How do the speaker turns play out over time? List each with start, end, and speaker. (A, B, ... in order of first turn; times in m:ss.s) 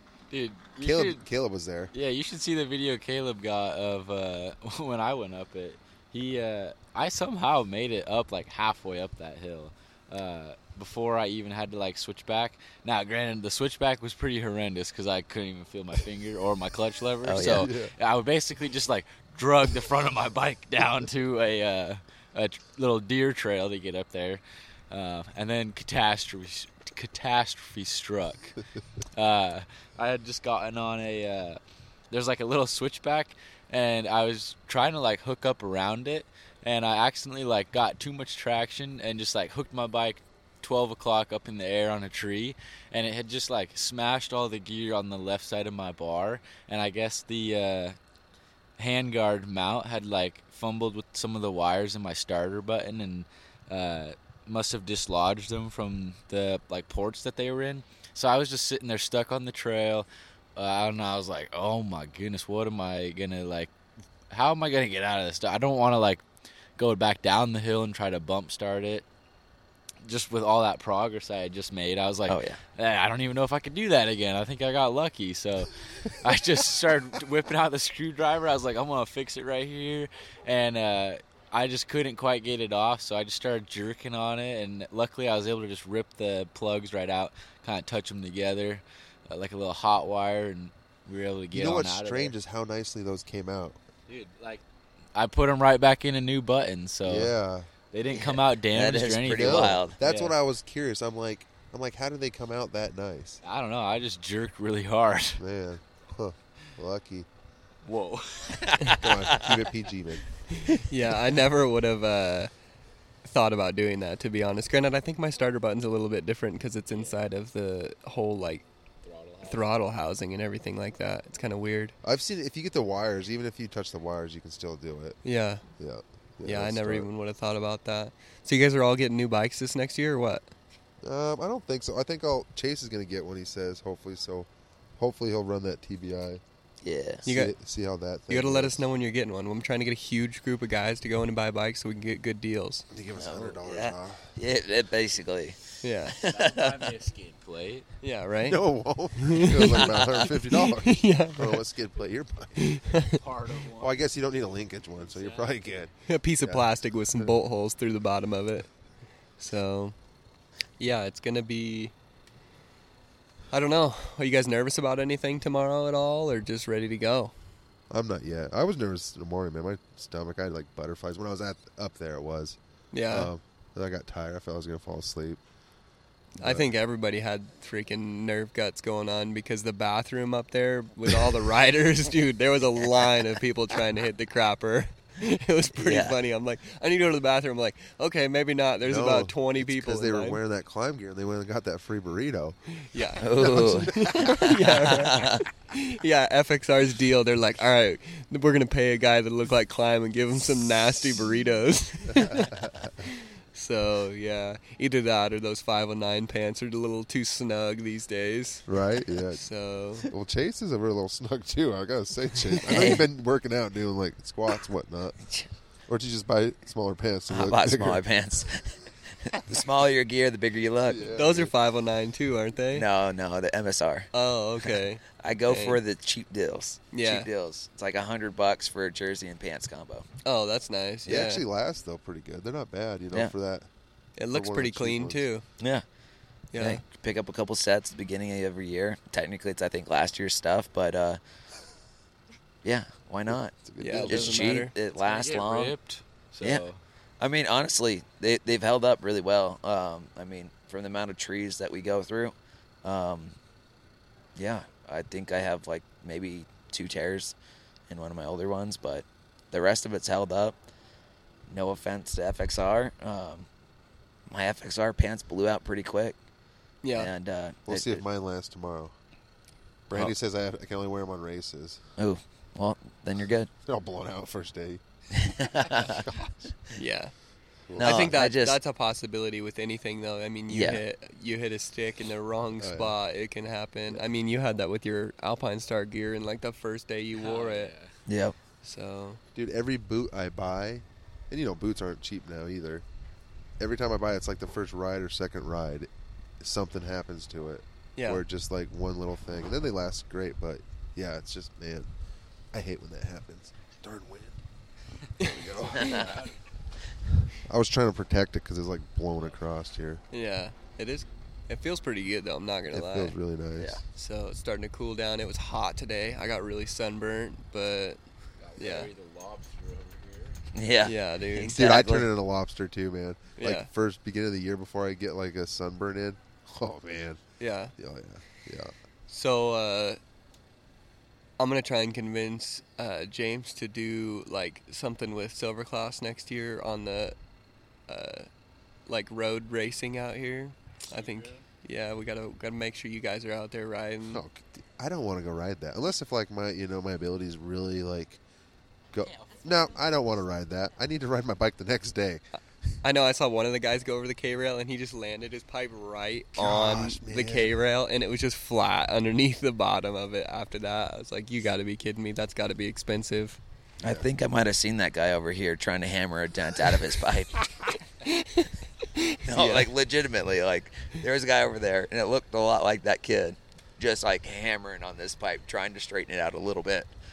0:00.3-0:01.2 A
0:00.8-0:01.9 B
0:01.9-0:28.6 A
0:17.2-0:17.7 C
0:17.4-0:17.9 B
0:29.1-0:31.6 A
0:32.1-0:48.0 A
0:48.8-1:03.7 A
1:04.3-1:06.2 A
1:06.8-1:09.0 A
1:10.0-1:32.3 A
1:12.3-1:12.6 C
1:31.5-1:33.8 B
1:34.1-1:34.6 A
1:35.1-1:37.3 A
1:37.0-1:37.7 B
1:37.9-1:40.3 A
1:38.1-1:40.0 C
1:39.3-1:43.4 B
1:43.4-1:45.4 A
1:45.4-1:47.3 B
1:47.8-1:49.7 A
1:48.9-1:50.2 B
1:50.5-1:52.5 D
1:53.2-1:58.6 D
1:59.0-1:59.7 A
1:59.4-2:01.9 D
2:02.0-2:05.2 B
2:05.2-2:05.6 D
2:05.8-2:07.1 B
2:06.4-2:10.5 D
2:11.0-2:16.4 B
2:16.8-2:17.2 C
2:17.2-2:17.5 D
2:17.2-2:18.8 B
2:18.3-2:22.9 D
2:22.9-2:24.3 B
2:23.2-2:26.9 C
2:25.8-2:26.2 D
2:26.2-2:27.9 A
2:28.0-2:28.6 D
2:28.4-2:32.6 B
2:29.2-2:31.6 D
2:32.6-2:33.2 D
2:33.1-2:34.0 A
2:33.8-2:35.9 B
2:35.0-2:35.6 A
2:36.1-2:38.7 D
2:36.4-2:37.3 B
2:39.4-2:39.9 D
2:40.8-2:41.9 D
2:43.5-2:47.3 D
2:47.9-2:52.6 B
2:52.9-2:53.3 D
2:53.1-2:55.4 B
2:56.4-3:10.4 D
2:56.4-2:56.7 B
3:05.8-3:06.2 C
3:08.8-3:12.6 B
3:12.8-3:28.7 D
3:13.2-3:15.4 C
3:13.4-3:14.8 B
3:22.1-3:23.1 B
3:28.7-3:29.4 B
3:29.3-3:30.1 D
3:30.0-3:35.2 B
3:32.7-3:33.0 C
3:35.2-3:35.5 C
3:35.9-3:38.0 B
3:37.3-3:41.1 C
3:40.9-3:41.5 B
3:41.1-3:42.8 D
3:42.7-3:44.1 C
3:44.1-3:45.8 D
3:44.6-3:50.1 C
3:46.9-3:47.3 D
3:50.2-3:51.4 D
3:51.0-3:53.7 B
3:54.2-3:55.4 D
3:54.3-3:55.3 B
3:55.6-3:55.8 C
3:56.5-3:56.8 D
3:56.6-4:01.2 C
4:02.6-4:05.7 C
4:03.3-4:04.5 B
4:03.8-4:04.7 D
4:05.0-4:06.8 A
4:07.2-4:13.4 C
4:14.4-4:17.3 C
4:17.9-4:20.6 C
4:21.5-4:23.5 C
4:24.3-4:26.2 C
4:26.8-4:27.1 D
4:27.0-4:28.0 C
4:27.7-4:28.9 B
4:29.9-4:31.8 B
4:32.0-4:33.5 C
4:33.6-4:34.8 B
4:35.1-4:36.0 C
4:35.8-4:36.5 B
4:36.7-4:37.1 D
4:37.7-4:38.1 B
4:37.8-4:38.6 C
4:37.8-4:47.7 D
4:40.5-4:40.8 C
4:42.6-4:42.9 B
4:47.1-4:47.9 A
4:48.1-4:48.3 C
4:48.6-4:49.2 D
4:49.3-4:52.8 B
4:53.6-4:55.9 B
4:56.4-5:01.9 B
4:58.0-4:58.2 D
5:02.5-5:04.4 B
5:05.2-5:06.1 D
5:05.2-5:06.0 B
5:05.5-5:06.3 A
5:05.7-5:06.2 C
5:07.3-5:10.0 B
5:10.1-5:13.2 D
5:12.7-5:13.8 B
5:13.6-5:13.8 C
5:13.9-5:18.0 D
5:18.4-5:20.5 A
5:18.6-5:18.9 D
5:20.5-5:22.1 C
5:20.8-5:21.7 D
5:21.5-5:27.2 B
5:23.4-5:23.7 D
5:27.4-5:27.7 D
5:27.8-5:28.7 B
5:29.1-5:30.0 D
5:31.4-5:37.2 D
5:37.9-5:38.3 D
5:38.8-5:44.2 D
5:40.9-5:41.4 A
5:44.1-5:48.2 B
5:48.9-5:52.2 B
5:52.8-6:03.4 D
5:56.4-5:57.5 B
6:03.8-6:04.1 B
6:03.8-6:07.8 C
6:08.0-6:09.7 D
6:09.2-6:16.9 C